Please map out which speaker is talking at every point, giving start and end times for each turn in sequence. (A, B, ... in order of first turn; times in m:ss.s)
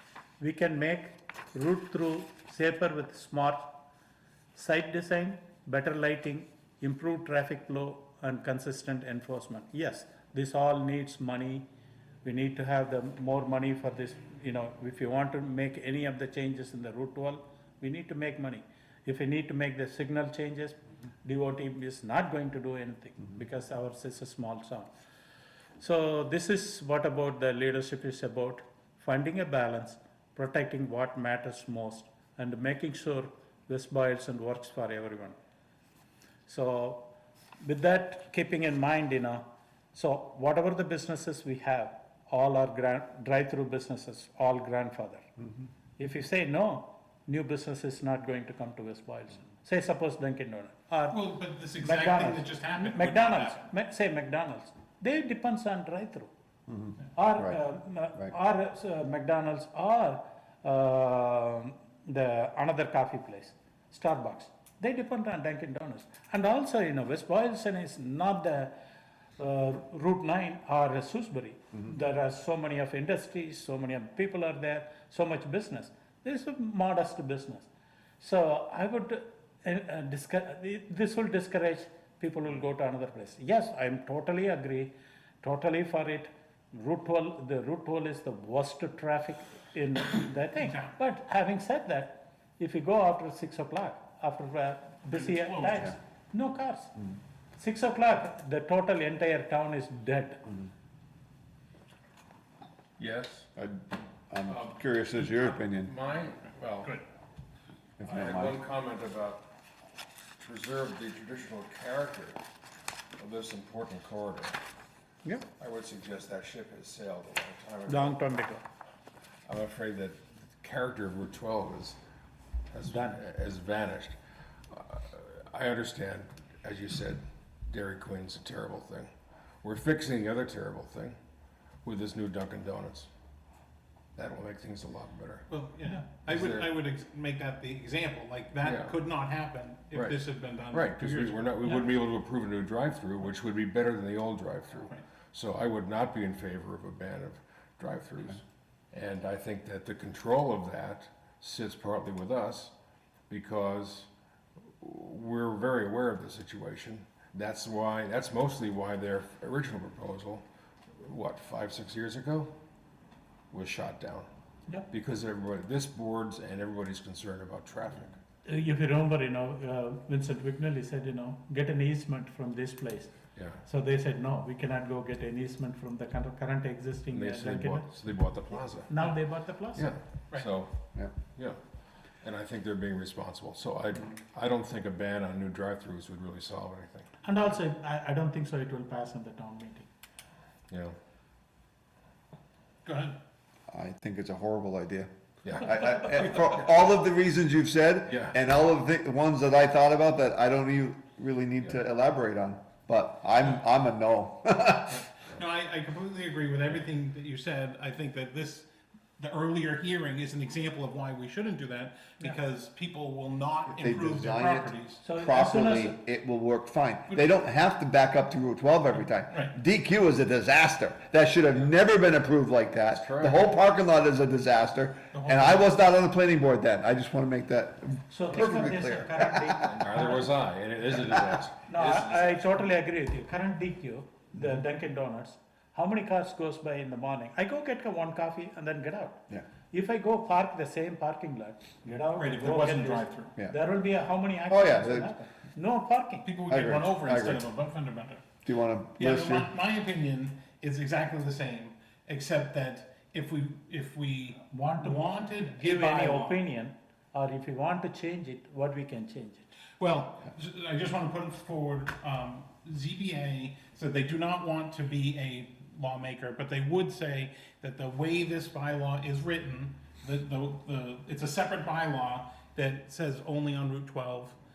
0:00.4-0:03.8 A
0:04.5-0:11.6 A
0:12.2-0:24.9 A
0:25.8-0:35.4 A
0:36.5-0:45.3 A
0:46.0-0:51.2 A
0:51.1-0:53.7 B
0:51.8-0:56.3 A
0:56.7-0:57.6 C
0:57.1-1:08.7 A
1:09.4-1:17.7 A
1:18.2-1:37.0 A
1:30.6-1:30.9 B
1:35.1-1:35.9 B
1:37.6-1:40.5 A
1:43.0-1:43.5 D
1:43.6-1:45.9 C
1:44.5-1:47.0 D
1:48.0-1:48.6 C
1:48.0-1:49.5 D
1:50.4-1:52.4 D
1:53.2-1:54.6 D
1:55.6-1:58.2 D
1:57.9-1:58.6 A
1:59.5-2:02.0 D
2:02.7-2:04.2 D
2:02.8-2:03.2 A
2:04.7-2:09.1 D
2:09.6-2:11.2 D
2:11.8-2:13.1 D
2:14.2-2:15.5 D
2:15.5-2:21.9 B
2:16.3-2:16.7 D
2:18.6-2:18.9 D
2:19.9-2:32.7 D
2:33.3-2:34.1 D
2:34.8-2:40.4 D
2:41.0-2:42.5 D
2:43.5-2:44.3 D
2:44.9-2:48.2 D
2:48.4-2:58.0 A
2:53.4-2:53.6 D
2:57.1-2:59.0 D
2:58.8-2:59.9 A
2:59.7-3:00.7 D
3:02.2-3:07.1 D
3:07.2-3:09.9 A
3:10.7-3:10.9 D
3:12.8-3:13.2 B
3:13.7-3:25.0 C
3:15.4-3:15.8 D
3:18.1-3:18.3 D
3:25.3-3:28.7 B
3:29.2-3:35.0 B
3:33.8-3:49.8 C
3:35.0-3:36.0 A
3:42.9-3:43.6 D
3:45.1-3:45.7 B
3:48.1-3:50.3 A
3:49.7-3:52.6 D
3:51.7-4:06.3 A
4:02.1-4:03.3 B
4:04.5-4:05.1 C
4:06.2-4:08.2 B
4:06.5-4:07.5 C
4:08.4-4:09.5 C
4:09.0-4:16.4 B
4:14.5-4:15.0 A
4:15.6-4:19.5 A
4:19.8-4:34.4 B